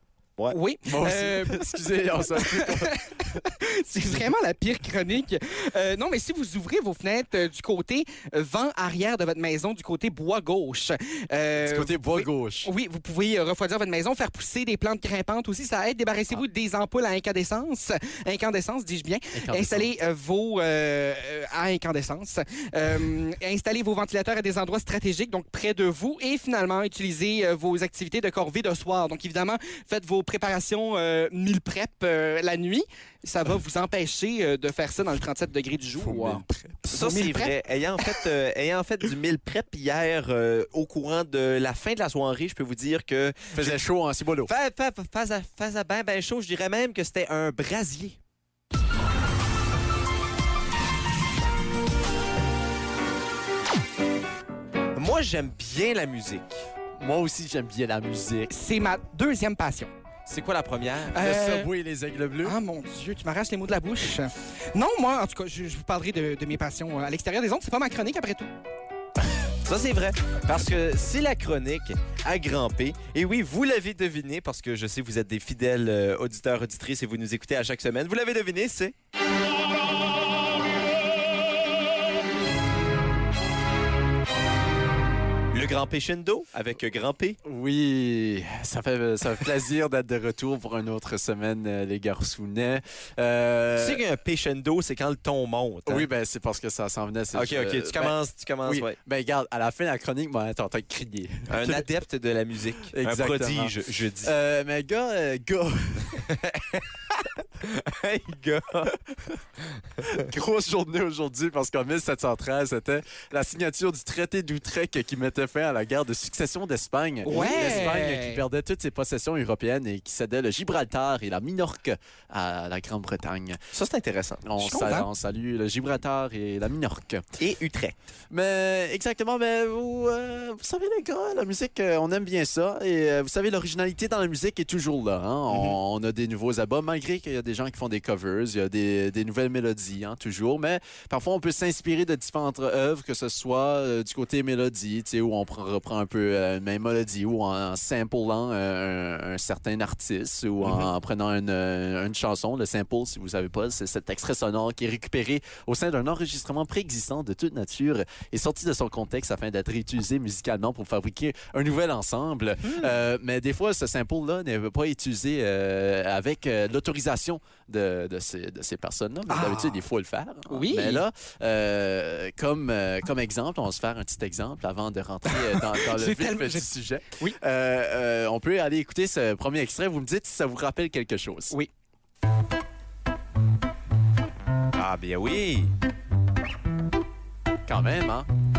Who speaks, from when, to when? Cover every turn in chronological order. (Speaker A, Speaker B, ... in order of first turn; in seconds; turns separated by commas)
Speaker A: 0.5-37.5, Speaker B: 0.8-3.4, Speaker B: 4.0-4.3, Speaker B: 11.6-12.7, Speaker B: 19.3-19.9, Speaker B: 36.0-36.9, Speaker C: 36.9-43.8, Speaker B: 43.5-44.5, Speaker C: 44.5-48.2, Speaker C: 54.9-56.6, Speaker B: 57.0-58.5, Speaker A: 58.5-59.9, Speaker C: 60.2-61.2, Speaker A: 61.1-61.7, Speaker B: 61.2-62.6, Speaker A: 62.4-68.5, Speaker C: 69.6-78.9, Speaker C: 85.5-87.4, Speaker B: 87.4-94.0, Speaker C: 93.8-96.1, Speaker B: 95.8-101.9, Speaker C: 97.3-99.0, Speaker C: 101.5-104.3, Speaker B: 102.9-106.2, Speaker C: 106.1-108.9, Speaker C: 110.0-110.3, Speaker B: 110.0-123.6, Speaker A: 117.2-118.4, Speaker C: 117.3-117.9, Speaker C: 123.7-124.5, Speaker B: 124.4-127.2, Speaker A: 124.6-125.1, Speaker C: 127.4-128.0, Speaker B: 128.3-181.5, Speaker C: 135.5-135.8, Speaker C: 150.6-150.9, Speaker A: 169.3-169.8, Speaker A: 170.5-171.0, Speaker A: 175.3-176.7, Speaker C: 184.7-185.7, Speaker B: 187.7-188.3